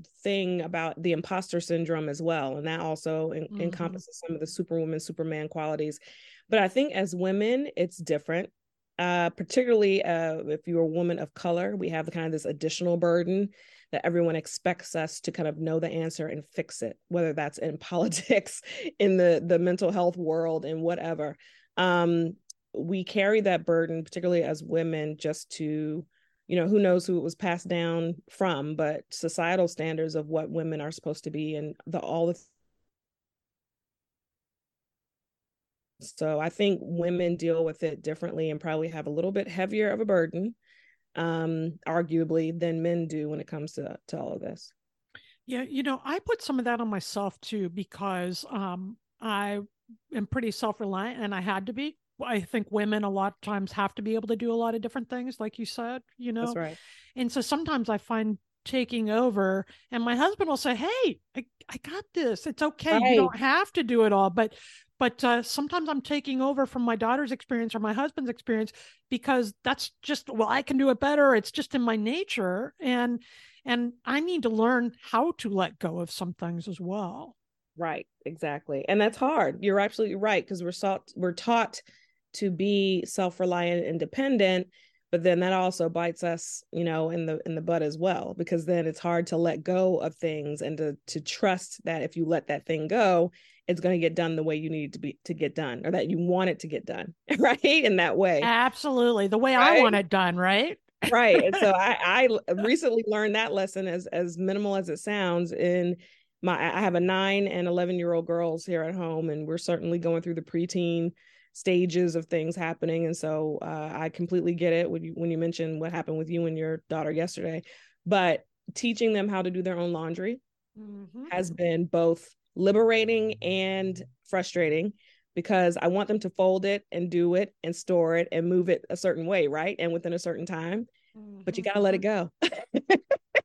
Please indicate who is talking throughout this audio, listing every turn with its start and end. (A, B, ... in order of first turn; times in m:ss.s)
0:00.2-0:32.4 A
0:03.5-0:04.0 B
0:36.0-0:40.6 A
0:41.1-0:44.7 A
0:45.5-0:56.6 B
0:56.4-0:56.8 A
0:57.2-1:17.3 B
1:02.9-1:03.3 A
1:17.8-1:21.8 A
1:22.3-1:38.5 A
1:38.4-1:41.6 B
1:39.6-1:40.0 A
1:41.1-2:00.4 A
2:00.8-2:01.3 B
2:01.3-2:10.9 A
2:11.2-2:12.0 B
2:11.4-2:13.0 A